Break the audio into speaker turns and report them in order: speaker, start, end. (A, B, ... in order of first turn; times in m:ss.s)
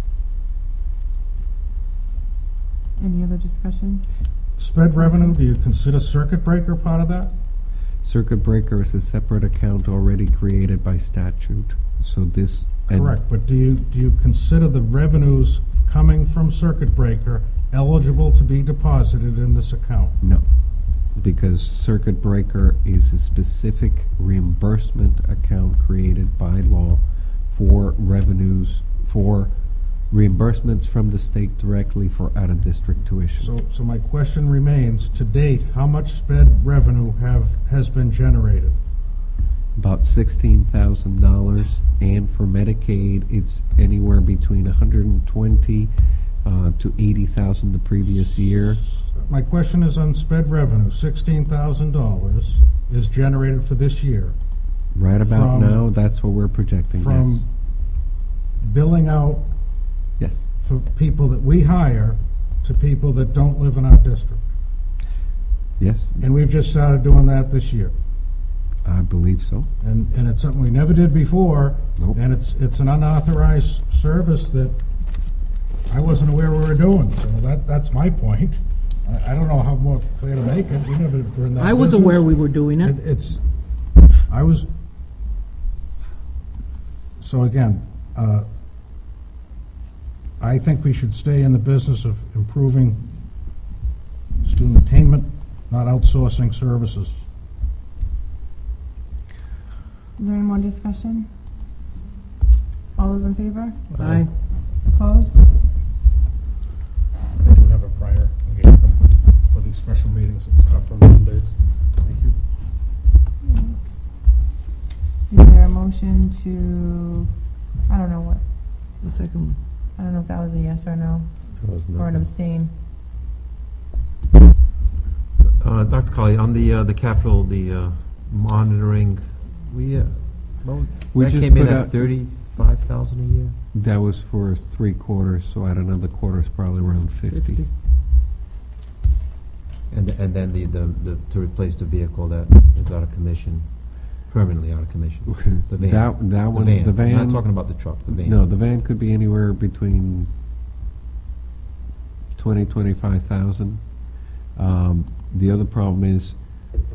0:03.0-0:04.0 A
0:04.6-0:07.3 B
0:05.0-0:05.3 A
0:08.0-0:13.1 C
0:12.9-0:20.2 B
0:21.2-0:29.5 C
0:30.1-0:33.5 C
0:33.4-0:38.8 B
0:39.8-0:45.9 C
0:46.4-0:48.8 C
0:48.8-0:54.3 B
0:54.9-0:57.4 C
0:55.2-0:55.8 B
0:56.9-0:57.5 B
0:58.6-0:59.4 B
1:00.2-1:00.5 C
1:00.6-1:04.4 B
1:05.8-1:06.2 C
1:06.2-1:07.9 B
1:08.8-1:09.7 C
1:09.8-1:14.8 B
1:15.9-1:23.4 B
1:21.6-1:23.0 D
1:24.2-1:24.7 B
1:27.2-1:28.4 B
1:30.4-1:33.0 B
1:34.4-1:37.1 B
1:40.2-1:41.3 A
1:43.0-1:43.9 A
1:43.9-1:44.3 D
1:43.9-1:44.2 E
1:44.8-1:45.4 A
1:47.4-1:51.5 B
1:53.4-1:53.8 A
1:55.3-1:57.3 A
1:57.9-1:58.4 A
1:59.0-1:59.6 D
2:00.0-2:01.3 A
2:01.6-2:02.3 E
2:01.9-2:02.7 A
2:05.4-2:13.6 E
2:11.1-2:11.9 C
2:13.7-2:17.6 C
2:17.2-2:17.7 D
2:19.9-2:28.4 E
2:25.7-2:30.3 C
2:32.4-2:34.0 C
2:34.5-2:36.4 C